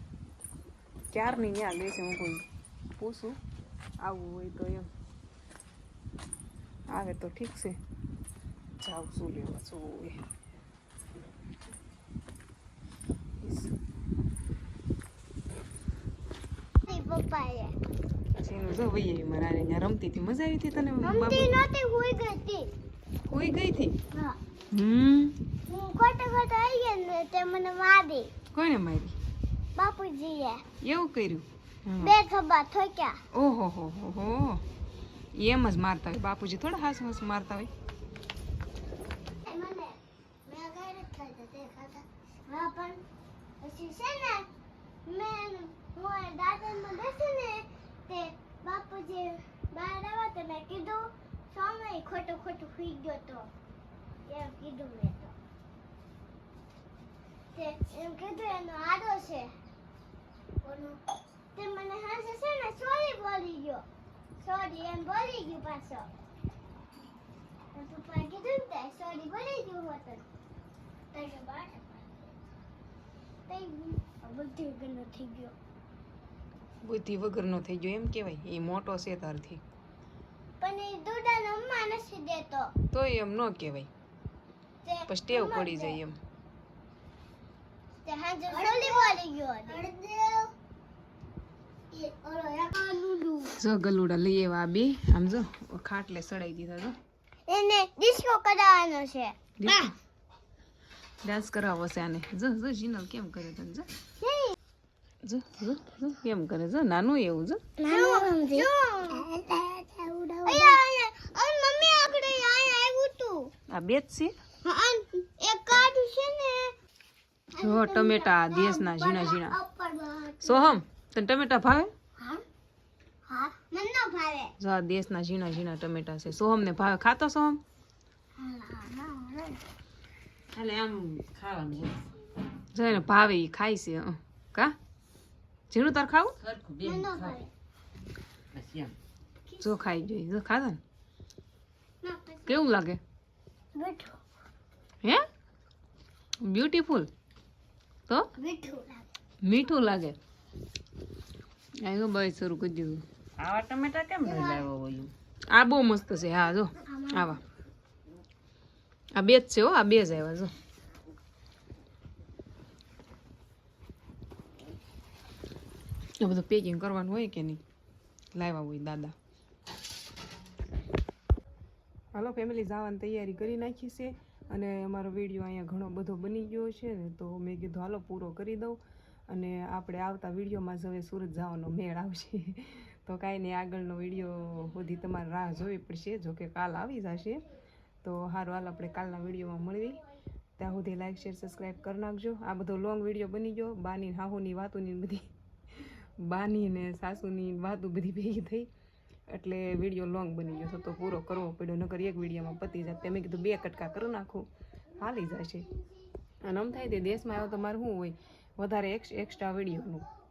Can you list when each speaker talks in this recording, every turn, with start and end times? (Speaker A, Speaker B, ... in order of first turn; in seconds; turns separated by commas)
Speaker A: 1.1-2.4, Speaker A: 3.0-3.4, Speaker A: 4.0-4.9, Speaker A: 6.9-7.8, Speaker A: 8.8-10.2, Speaker A: 13.4-13.7, Speaker B: 16.9-17.7, Speaker A: 18.4-21.5, Speaker B: 21.0-22.7, Speaker A: 23.3-23.9, Speaker A: 24.7-25.4, Speaker B: 25.7-28.3, Speaker A: 28.5-29.2, Speaker B: 29.8-30.6, Speaker A: 30.8-32.2, Speaker B: 32.0-33.2, Speaker A: 33.3-34.6, Speaker A: 35.4-37.7, Speaker B: 39.5-43.0, Speaker B: 43.6-44.5, Speaker B: 45.1-53.5, Speaker B: 54.3-55.3, Speaker B: 57.5-59.5, Speaker B: 60.6-61.0, Speaker B: 61.6-63.9, Speaker B: 64.4-66.1, Speaker B: 67.7-70.2, Speaker B: 71.1-72.3, Speaker B: 73.5-75.5, Speaker A: 76.8-79.6, Speaker B: 80.6-82.7, Speaker A: 82.9-83.9, Speaker B: 84.8-86.0, Speaker A: 85.1-86.2, Speaker B: 88.1-90.5, Speaker B: 91.9-93.5, Speaker A: 93.6-96.9, Speaker B: 97.5-99.7, Speaker A: 99.6-99.9, Speaker A: 101.2-103.9, Speaker B: 104.2-104.5, Speaker A: 105.2-107.6, Speaker B: 107.8-113.5, Speaker A: 113.7-114.3, Speaker B: 114.6-116.7, Speaker A: 117.6-119.6, Speaker B: 117.6-120.6, Speaker A: 120.4-121.9, Speaker B: 123.3-124.5, Speaker A: 124.6-127.6, Speaker B: 128.4-129.5, Speaker C: 130.5-132.0, Speaker A: 132.7-134.8, Speaker A: 135.7-136.3, Speaker C: 136.4-137.5, Speaker B: 136.8-137.5, Speaker C: 138.5-138.9, Speaker A: 139.6-140.8, Speaker B: 142.0-142.6, Speaker A: 142.5-143.0, Speaker B: 143.8-144.2, Speaker A: 146.4-147.1, Speaker B: 148.4-149.0, Speaker A: 149.4-150.2, Speaker A: 151.8-153.0, Speaker C: 153.4-155.1, Speaker B: 154.3-154.6, Speaker A: 155.5-157.4, Speaker A: 159.2-160.5, Speaker A: 166.2-167.6, Speaker A: 168.3-169.2, Speaker A: 172.1-178.8, Speaker A: 179.3-187.4, Speaker A: 188.0-190.0, Speaker A: 190.6-198.7, Speaker A: 199.3-204.5, Speaker A: 205.0-205.7, Speaker A: 206.4-210.1